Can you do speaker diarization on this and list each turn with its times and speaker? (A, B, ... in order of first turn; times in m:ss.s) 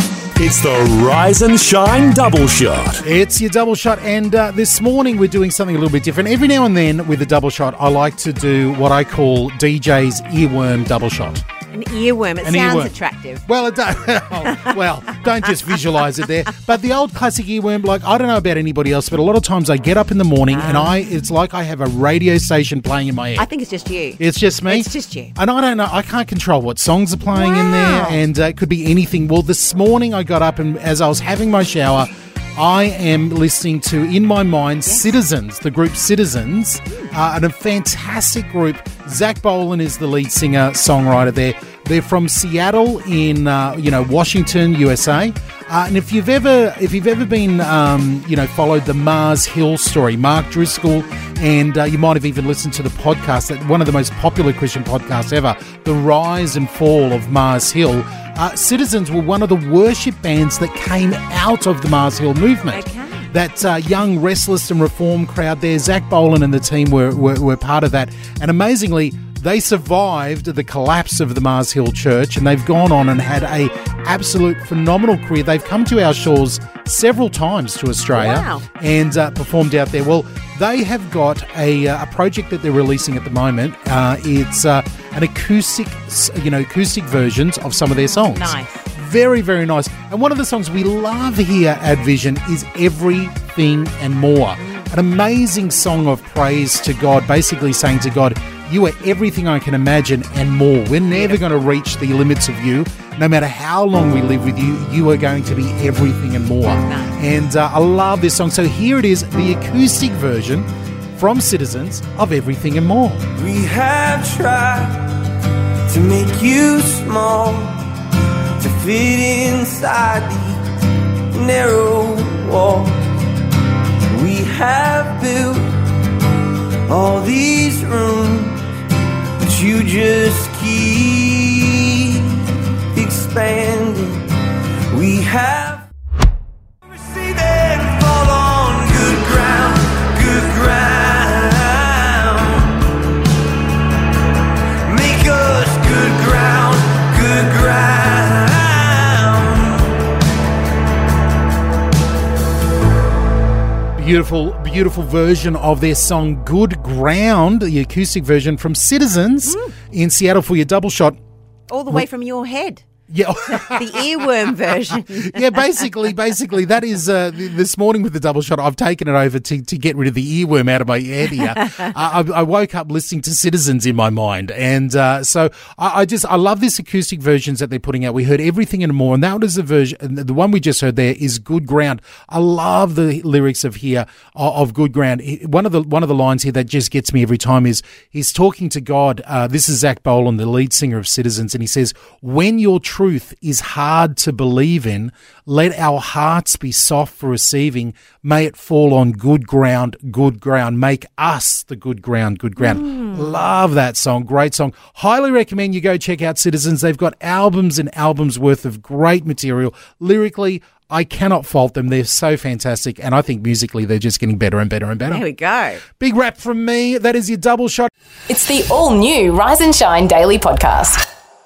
0:00.4-0:03.0 A
0:03.0-0:11.4 B
0:11.7-0:13.4 C
0:12.4-0:23.5 B
0:14.4-0:14.8 C
0:20.5-0:21.2 C
0:23.4-0:25.3 C
0:24.2-1:53.2 B
0:27.4-0:28.2 C
0:34.9-0:35.1 C
1:02.7-1:03.3 C
1:18.2-1:18.6 C
1:28.1-1:28.8 C
1:34.6-1:34.9 C
1:41.1-1:41.4 C
1:46.8-1:47.2 C
1:53.3-1:55.1 D
1:55.9-1:57.9 D
1:58.6-2:00.6 D
2:01.3-2:03.1 D
2:04.1-2:05.8 D
2:06.9-2:08.7 D
2:09.4-2:14.2 D
2:14.9-2:15.9 D
2:16.8-2:22.8 D
2:24.9-2:29.9 D
2:34.0-2:41.2 B
2:39.5-2:39.7 C
2:41.7-2:42.8 C
2:43.1-2:44.1 B
2:43.5-2:45.8 C
2:44.9-3:35.2 B
2:51.6-2:51.9 C
3:22.6-3:23.4 C
3:35.1-3:35.8 C
3:36.0-3:37.9 B
3:38.3-3:41.0 E